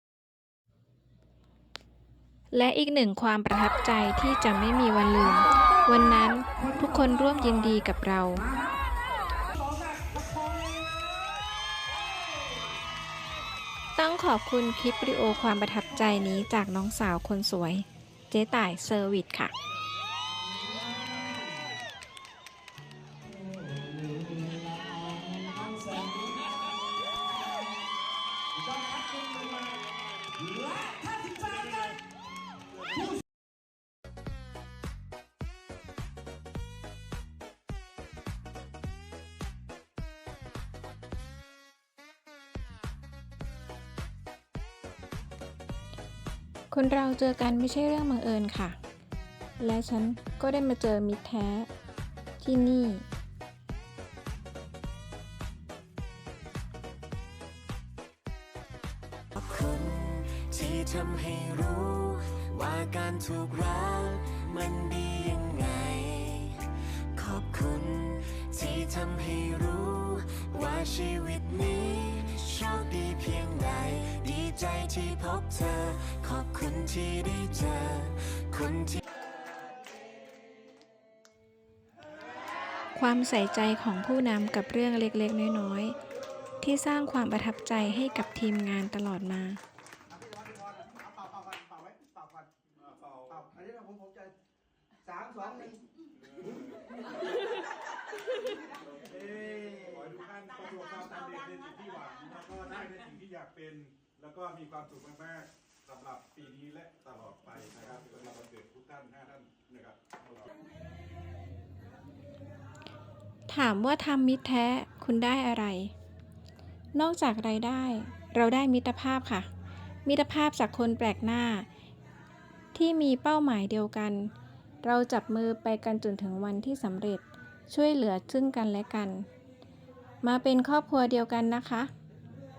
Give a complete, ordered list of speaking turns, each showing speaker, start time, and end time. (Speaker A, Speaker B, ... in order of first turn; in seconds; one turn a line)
Speaker A: 2.5-8.5
Speaker A: 14.0-19.5
Speaker A: 46.7-48.8
Speaker A: 49.6-51.7
Speaker A: 52.4-53.0
Speaker B: 59.3-79.0
Speaker A: 82.9-86.0
Speaker A: 86.6-89.6
Speaker C: 90.2-92.5
Speaker D: 92.9-93.6
Speaker C: 93.6-94.3
Speaker C: 95.1-95.8
Speaker D: 99.1-110.2
Speaker A: 113.5-115.9
Speaker A: 117.0-119.5
Speaker A: 120.0-121.7
Speaker A: 122.7-124.3
Speaker A: 124.8-129.3
Speaker A: 130.2-131.9